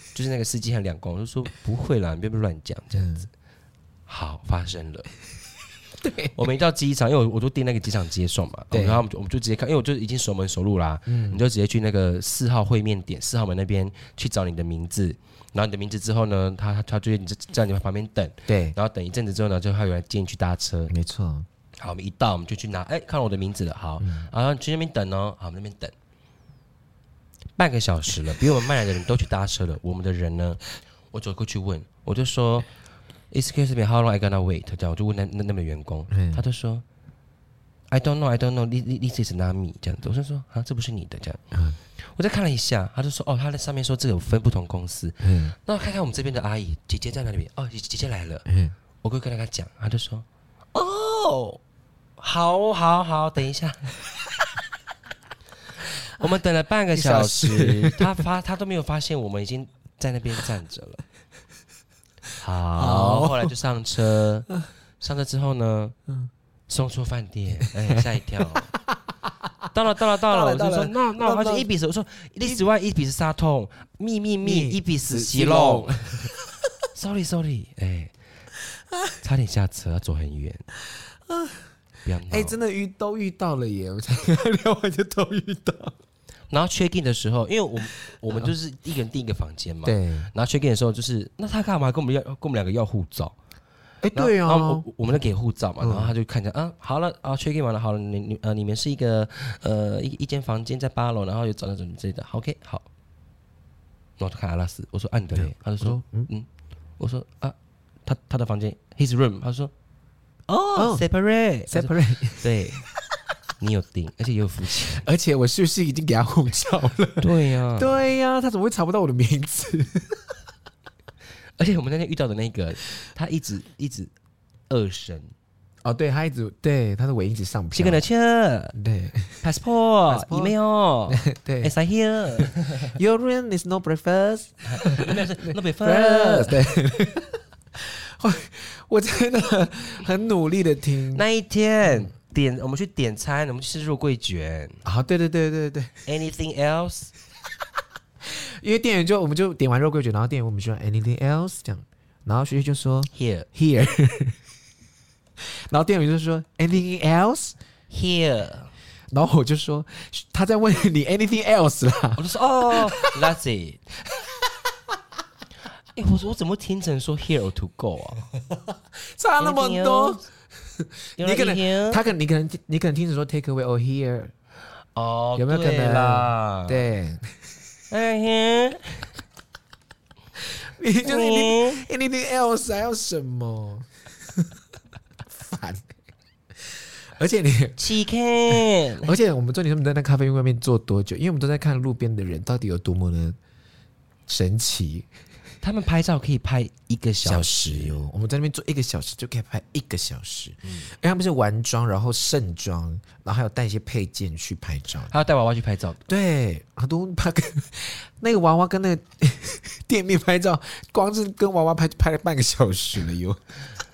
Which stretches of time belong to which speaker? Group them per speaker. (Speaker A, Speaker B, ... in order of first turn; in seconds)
Speaker A: 0.1-3.3, 4.1-5.1, 6.3-20.9, 21.8-25.9, 27.6-30.6, 31.1-32.7, 33.3-36.8, 37.9-41.4, 42.0-48.5, 49.0-51.6, 52.2-53.9, 55.8-61.0, 62.4-64.5, 65.0-65.9, 66.7-68.7, 69.7-76.3, 76.9-78.1, 79.2-80.7, 82.0-82.6, 86.5-93.3, 94.1-102.8, 104.2-106.5, 107.0-107.5, 108.0-109.7, 110.5-112.9, 113.6-115.0, 117.2-118.0, 121.6-124.1, 124.7-125.3, 127.8-128.8, 129.4-132.9, 134.7-136.6, 141.1-144.8, 146.1-147.1, 153.1-153.5, 157.9-158.7, 162.2-163.8, 165.9-168.3, 169.4-170.2, 171.2-172.0, 174.9-176.8, 177.9-179.1, 181.0-181.8, 187.8-189.1, 195.6-197.9, 205.1-206.0
Speaker B: 2.9-3.3, 6.0-6.3, 8.7-9.0, 11.1-11.4, 18.5-18.8, 20.9-21.5, 24.0-24.3, 36.1-36.4, 41.5-41.8, 45.2-45.5, 48.5-48.7, 56.9-58.2, 62.8-63.5, 70.3-71.7, 74.4-76.6, 81.3-81.6, 82.3-85.9, 89.8-90.3, 94.0-94.8, 95.8-96.1, 105.3-106.3, 110.8-111.0, 111.7-112.8, 114.9-120.4, 125.8-128.0, 128.7-129.5, 130.1-130.5, 131.1-131.7, 132.4-141.2, 144.8-145.9, 148.2-154.4, 155.6-157.6, 159.1-163.2, 164.1-164.9, 168.5-170.2, 170.8-174.3, 175.4-177.4, 180.6-184.5, 185.2-185.9, 186.6-187.8, 188.6-193.4, 194.3-195.1, 197.2-205.1, 206.1-213.4